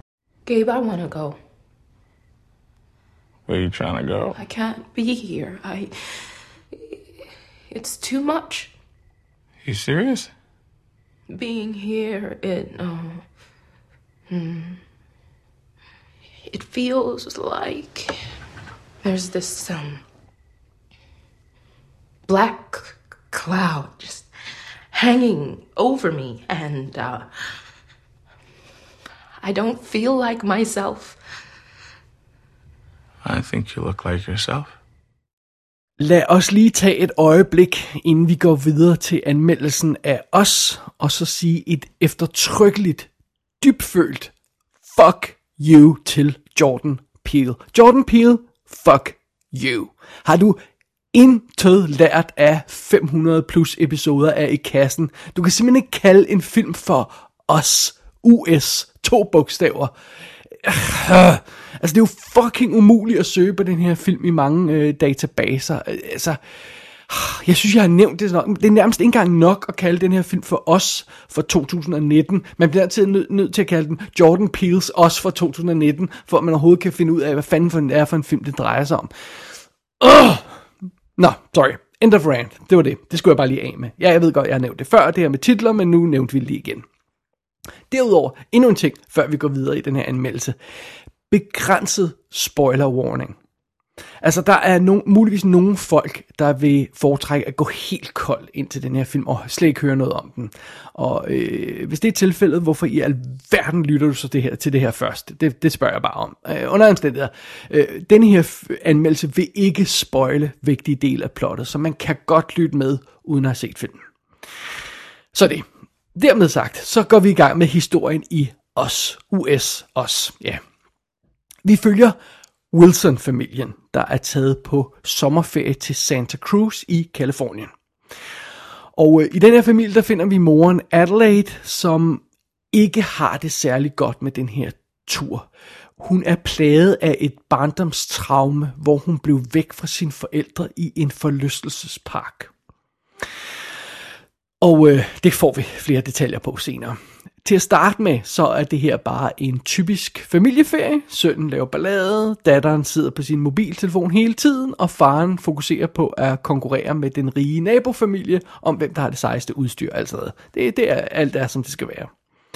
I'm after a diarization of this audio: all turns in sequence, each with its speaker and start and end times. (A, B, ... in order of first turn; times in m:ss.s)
0:00.4-0:01.4 A
0:03.5-0:04.4 B
0:04.4-0:07.0 A
0:07.7-0:08.7 A
0:09.6-0:10.3 B
0:11.3-0:13.2 A
0:14.3-0:14.8 A
0:16.5-0:18.2 A
0:19.0-0:20.0 A
0:22.3-0:24.3 A
0:24.9-0:27.3 A
0:29.4-0:31.2 A
0:33.2-0:34.8 B
0:36.0-0:44.3 C
0:44.8-0:50.6 C
0:51.1-0:59.9 C
1:00.6-1:06.4 C
1:07.1-1:19.1 C
1:20.0-1:20.6 C
1:21.2-1:26.8 C
1:27.9-1:30.6 C
1:31.3-1:33.4 C
1:34.2-1:54.0 C
1:55.3-2:00.6 C
2:01.6-2:02.2 C
2:02.7-2:07.7 C
2:09.0-2:15.5 C
2:16.0-2:22.5 C
2:24.6-2:42.1 C